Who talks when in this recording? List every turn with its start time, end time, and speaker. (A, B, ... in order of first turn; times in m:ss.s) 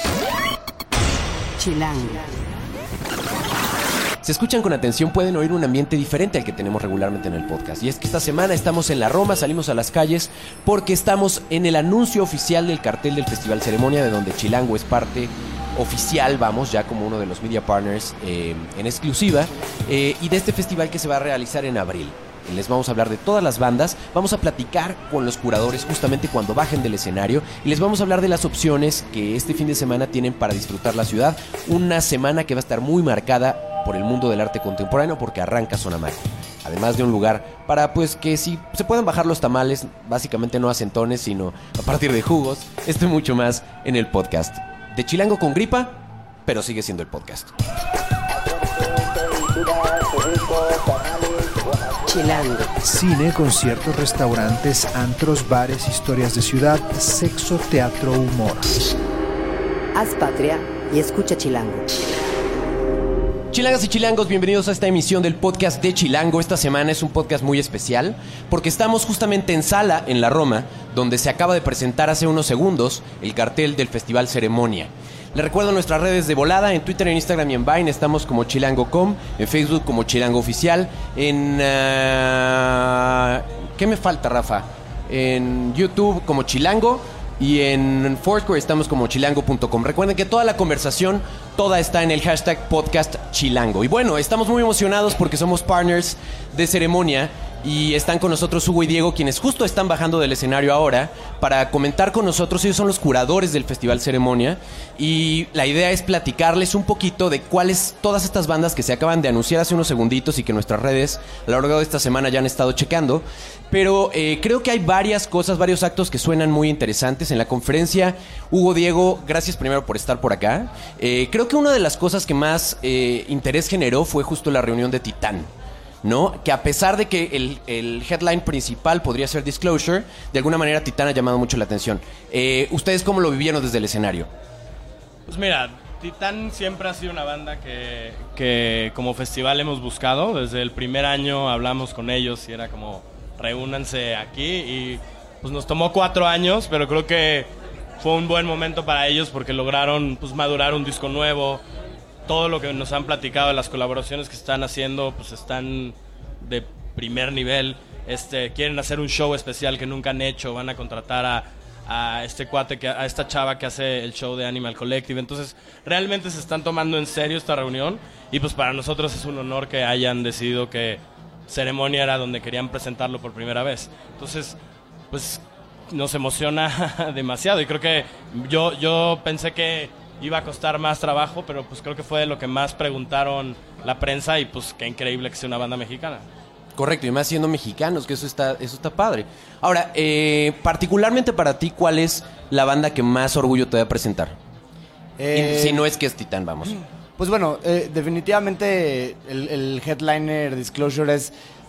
0:01.6-0:02.4 A
0:04.2-0:47.5 B
0:50.2-0:50.7 A
0:52.1-0:52.7 A
0:52.8-0:58.8 C
1:00.0-1:01.9 A
1:03.5-2:05.5 B
2:06.0-2:14.3 B
2:15.3-2:31.6 D
2:32.3-2:54.6 D
2:55.1-3:06.2 D
3:06.8-3:14.4 B
3:15.2-3:15.9 E
3:15.3-3:16.8 B
3:16.7-3:21.3 E